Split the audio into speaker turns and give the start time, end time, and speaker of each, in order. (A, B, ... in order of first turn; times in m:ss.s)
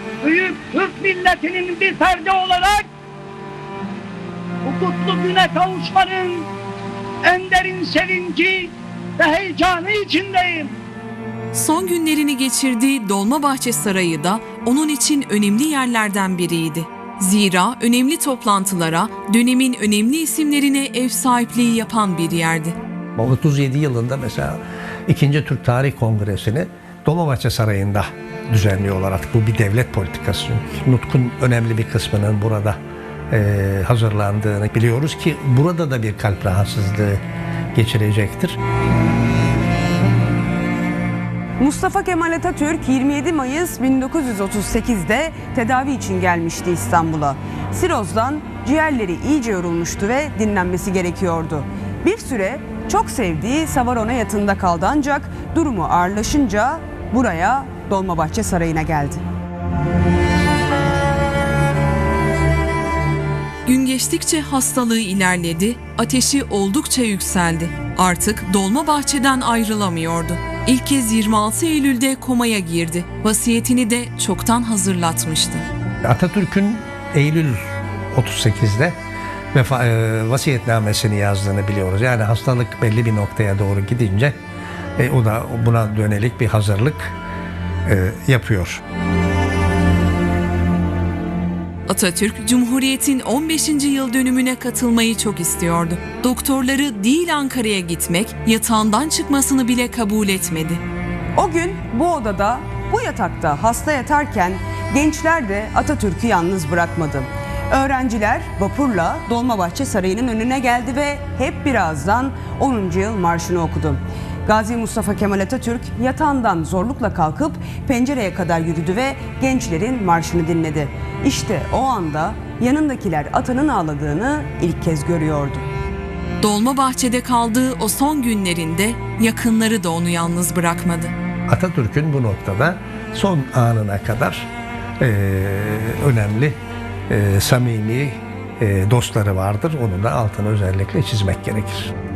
0:00.2-0:02.9 A
0:04.6-0:06.5 A
0:07.2-0:10.7 A
0:11.5-0:22.8 B
0:23.2-0:32.8 C
0:33.3-0:37.2 C
0:37.7-0:38.6 C
0:41.6-0:59.2 D
1:03.6-1:15.6 B
1:16.0-1:18.9 C
1:19.5-1:24.4 C
1:25.0-1:27.1 C
1:27.8-1:28.8 C
1:31.9-1:40.8 B
1:41.4-2:05.6 D
2:06.4-2:11.1 B
2:11.5-2:16.6 C
2:17.1-2:21.9 C